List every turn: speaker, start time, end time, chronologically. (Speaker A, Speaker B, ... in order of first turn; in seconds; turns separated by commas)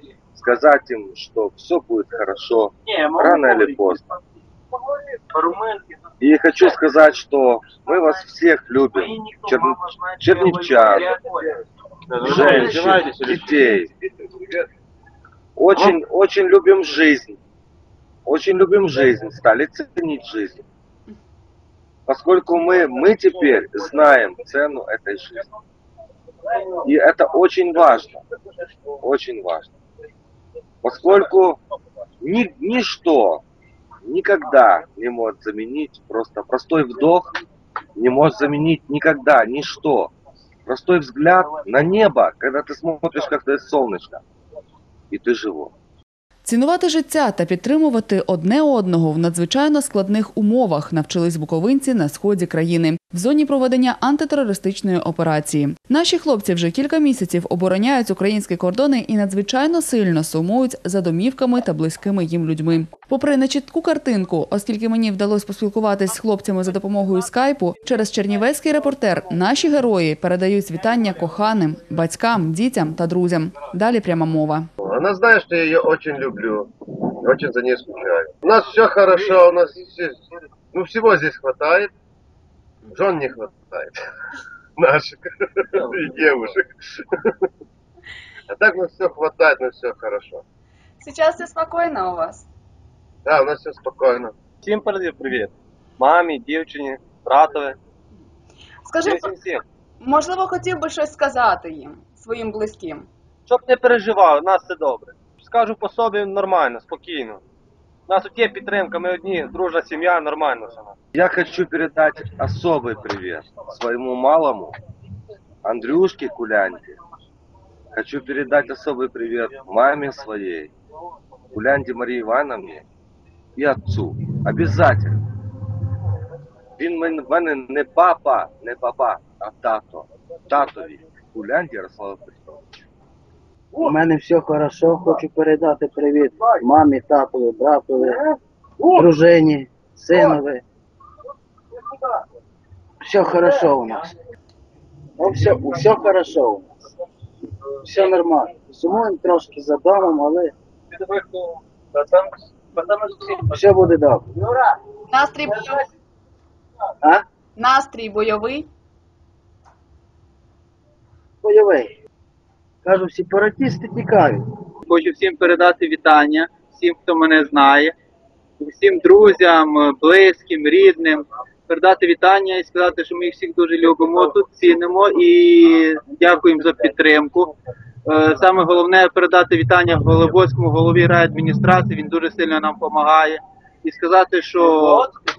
Speaker A: 0.3-4.1, Speaker A: 6.2-11.1, Speaker B: 12.2-13.6, Speaker A: 12.2-13.9, Speaker A: 15.6-17.4, Speaker A: 18.3-20.6, Speaker A: 22.1-25.4, Speaker A: 26.8-28.2, Speaker A: 29.0-29.7, Speaker A: 30.8-31.6, Speaker A: 32.2-33.4, Speaker A: 34.0-37.3, Speaker A: 38.0-40.1, Speaker A: 40.7-44.2, Speaker A: 45.1-45.7, Speaker C: 46.4-74.7, Speaker D: 74.8-80.2, Speaker D: 80.7-81.9, Speaker D: 82.9-84.0, Speaker D: 84.8-87.1, Speaker D: 88.5-90.4, Speaker E: 91.0-92.5, Speaker D: 93.2-94.3, Speaker B: 94.6-97.8, Speaker E: 98.8-99.3, Speaker B: 99.0-99.6, Speaker E: 100.0-103.1, Speaker B: 103.5-107.4, Speaker B: 108.1-111.0, Speaker A: 111.2-114.8, Speaker A: 115.6-117.0, Speaker A: 118.0-120.7, Speaker A: 121.5-122.8, Speaker A: 123.6-125.2, Speaker A: 126.8-132.6, Speaker F: 133.8-138.2, Speaker F: 138.9-140.6, Speaker F: 143.0-144.1, Speaker F: 145.2-146.7, Speaker F: 147.8-150.5, Speaker B: 151.0-153.3, Speaker F: 153.5-154.6, Speaker E: 155.1-155.9, Speaker E: 157.6-158.7, Speaker F: 161.4-161.9, Speaker F: 162.8-164.4, Speaker G: 164.9-167.9, Speaker G: 168.6-177.5, Speaker G: 178.1-185.1